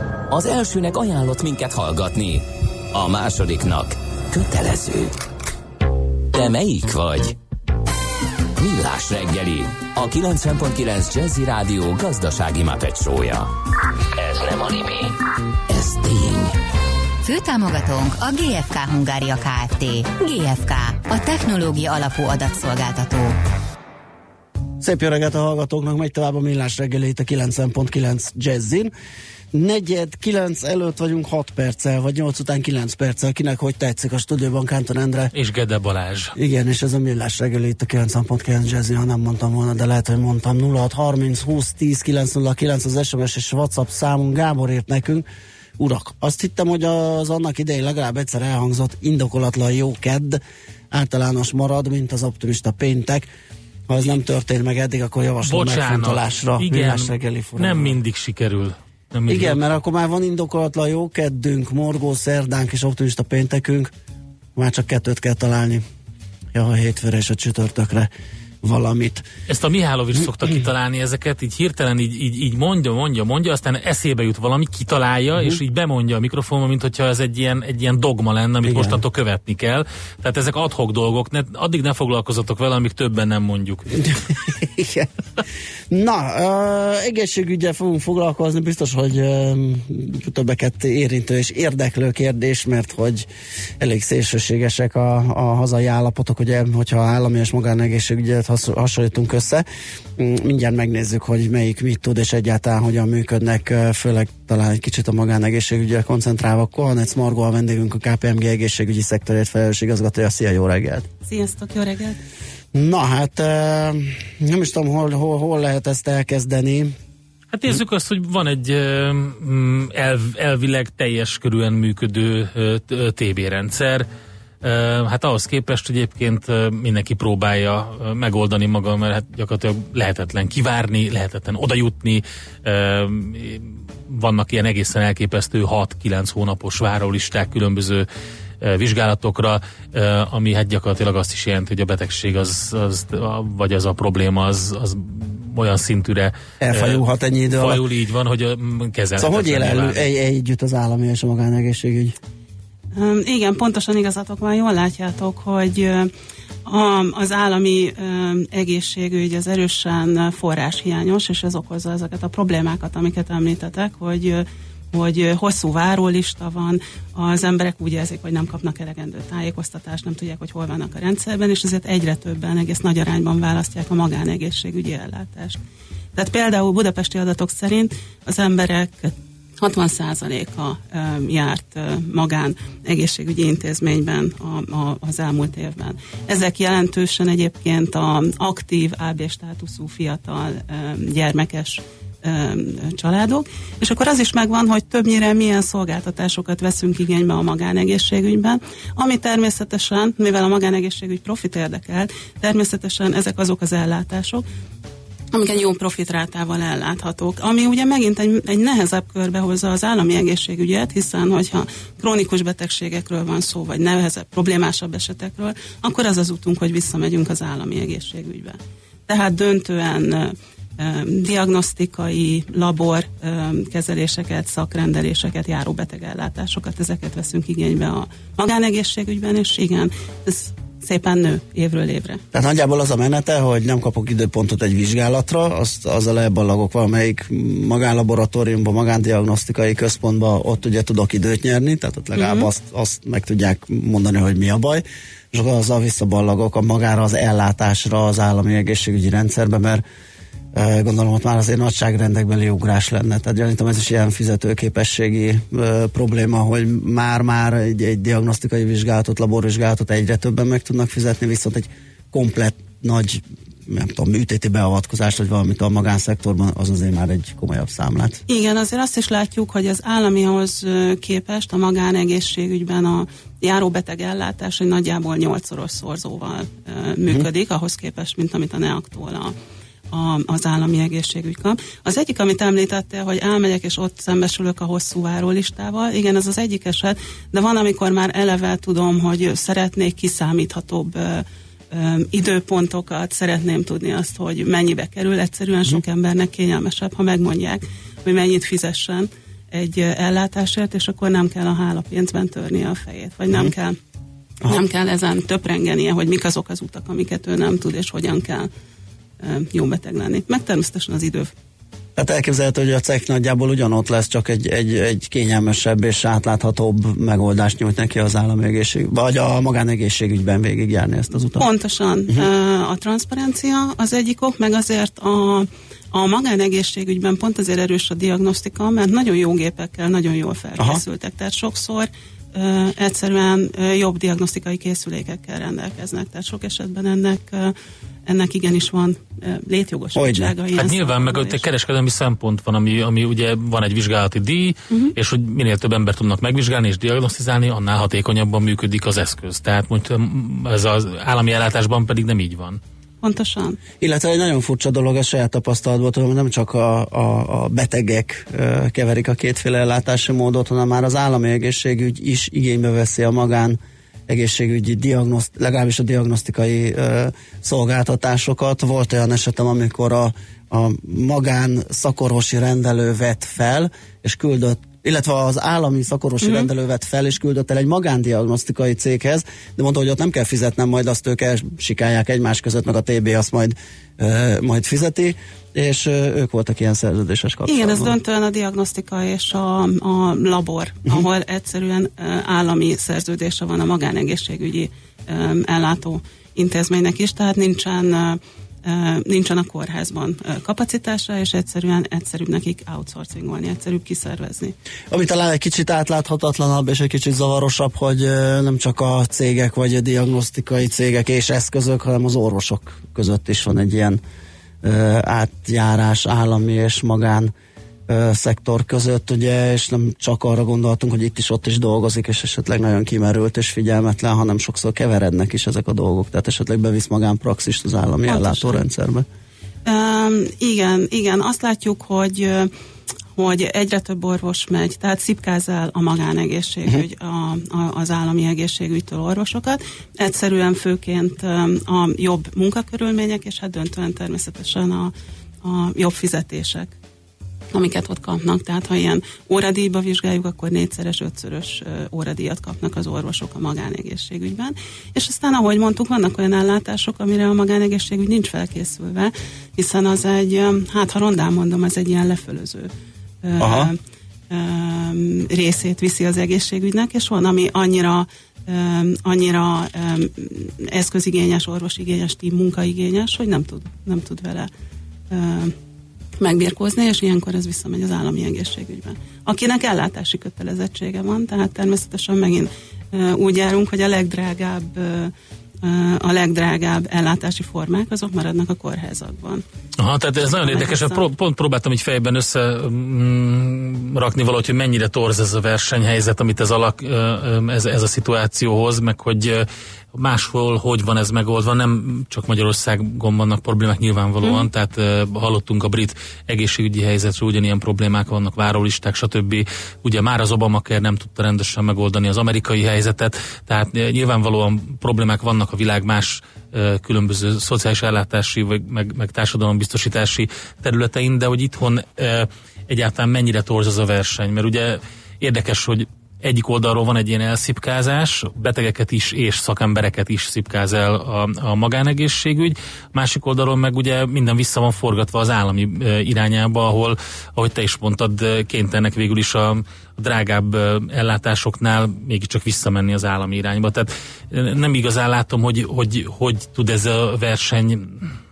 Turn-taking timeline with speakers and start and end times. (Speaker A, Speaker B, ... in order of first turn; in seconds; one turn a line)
Speaker A: 0.3-5.1
Speaker A: 6.3-7.3
Speaker A: 8.6-13.5
Speaker A: 14.1-15.1
Speaker A: 15.7-16.5
Speaker B: 17.2-23.4
Speaker C: 24.8-28.9
Speaker C: 29.5-35.3
Speaker D: 35.3-36.3
Speaker C: 36.4-45.2
Speaker C: 45.8-53.3
Speaker C: 53.9-58.0
Speaker D: 55.4-59.7
Speaker C: 59.3-63.9
Speaker C: 64.5-65.8
Speaker C: 66.5-68.1
Speaker C: 68.6-69.2
Speaker D: 69.5-84.2
Speaker C: 78.6-79.0
Speaker C: 84.0-85.1
Speaker C: 85.9-93.2
Speaker C: 93.8-99.6
Speaker C: 100.2-111.1
Speaker E: 111.2-112.2
Speaker C: 112.7-117.0
Speaker D: 117.5-124.1
Speaker D: 124.6-138.1
Speaker D: 138.6-150.0
Speaker C: 146.6-147.8
Speaker C: 149.2-152.1
Speaker E: 152.9-156.1
Speaker E: 156.7-175.6
Speaker E: 176.1-204.4
Speaker E: 205.3-232.2
Speaker C: 232.3-249.8
Speaker E: 242.2-242.5
Speaker C: 250.5-268.2
Speaker E: 268.3-279.3
Speaker E: 279.9-303.8
Speaker E: 304.4-308.5
Speaker E: 309.2-311.3
Speaker C: 311.9-321.5
Speaker E: 321.4-337.5
Speaker E: 338.1-341.4
Speaker C: 339.9-340.3
Speaker D: 340.6-352.6
Speaker E: 353.0-353.6
Speaker C: 353.8-387.9
Speaker E: 376.2-376.5
Speaker E: 387.5-404.6
Speaker C: 404.9-414.0
Speaker C: 414.6-417.3
Speaker C: 417.9-429.1
Speaker E: 428.1-428.6
Speaker E: 429.6-432.5
Speaker E: 433.1-446.7
Speaker E: 447.5-462.7
Speaker E: 463.2-463.8
Speaker C: 463.4-463.7
Speaker E: 464.3-474.5
Speaker E: 475.1-475.6
Speaker E: 476.2-489.4
Speaker D: 489.8-548.1
Speaker E: 490.3-491.0